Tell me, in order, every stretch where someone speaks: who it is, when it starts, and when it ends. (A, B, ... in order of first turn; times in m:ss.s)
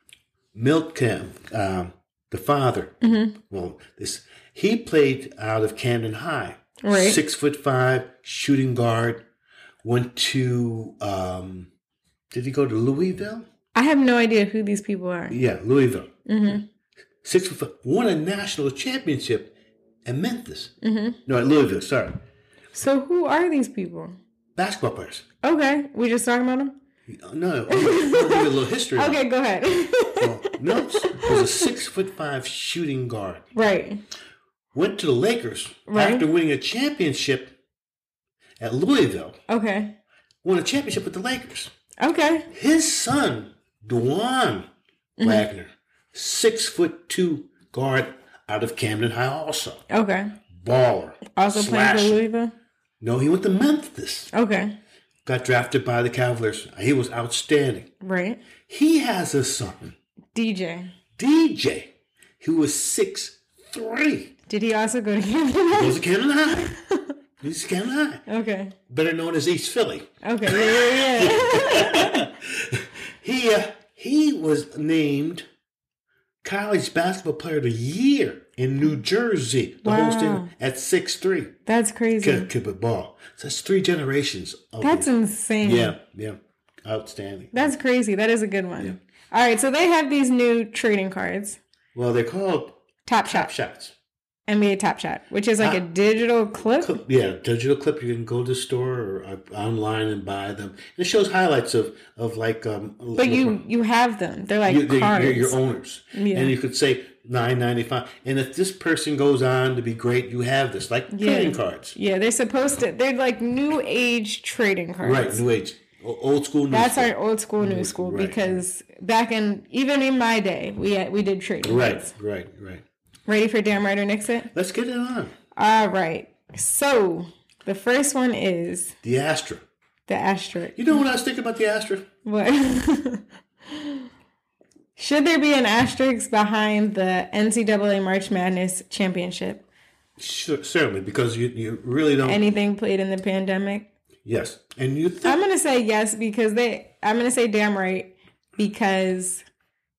0:00.5-0:09.2 A
0:03.0-0:03.3 B
0:06.8-0:07.2 B
0:09.8-0:11.7 A
0:12.3-0:13.5 A
0:13.7-0:15.4 B
0:15.3-0:16.5 A
0:16.3-0:16.6 B
0:17.2-0:19.5 A
0:20.0-0:20.7 A
0:20.8-0:21.2 B
0:21.2-0:22.2 A
0:22.7-0:24.2 B
0:24.6-0:25.2 A
0:25.4-0:26.8 B
0:27.1-0:29.2 A
0:27.7-0:31.7 B
0:30.2-0:33.4 A
0:33.5-0:34.0 B
0:34.7-0:37.6 A
0:35.9-0:36.2 B
0:38.6-0:39.4 A
0:39.5-0:40.0 B
0:40.4-0:41.7 A
0:42.0-0:42.5 B
0:42.5-0:44.7 A
0:45.2-0:45.5 B
0:45.2-0:49.8 A
0:49.9-0:50.4 B
0:50.5-0:52.2 A
0:51.3-0:52.5 B
0:53.0-0:54.3 A
0:54.3-0:54.8 B
0:55.2-0:57.9 A
0:58.0-0:58.4 B
0:58.7-1:00.0 A
1:00.3-1:00.9 B
1:01.2-1:01.9 A
1:02.4-1:04.3 A
1:04.5-1:07.1 B
1:05.7-1:06.7 A
1:07.4-1:08.2 A
1:08.3-1:08.8 B
1:08.9-1:15.4 A
1:10.2-1:12.3 B
1:16.4-1:21.5 A
1:19.8-1:20.5 B
1:21.6-1:22.5 B
1:22.2-1:25.1 A
1:24.8-1:26.0 B
1:25.6-1:27.7 A
1:27.5-1:31.6 B
1:31.9-1:33.9 A
1:33.0-1:33.5 B
1:34.5-1:37.0 B
1:36.8-1:43.6 A
1:43.2-1:45.6 B
1:44.6-1:52.0 A
1:46.1-1:46.5 B
1:51.1-1:55.4 B
1:55.0-1:58.6 A
1:56.7-2:02.1 B
2:01.6-2:02.8 A
2:03.3-2:04.5 B
2:04.5-2:05.3 A
2:05.5-2:08.9 B
2:09.0-2:09.6 A
2:10.1-2:11.0 B
2:10.8-2:12.1 A
2:12.2-2:14.0 B
2:15.0-2:19.6 B
2:20.2-2:22.4 A
2:22.2-2:23.9 B
2:24.2-2:25.4 A
2:25.2-2:29.4 B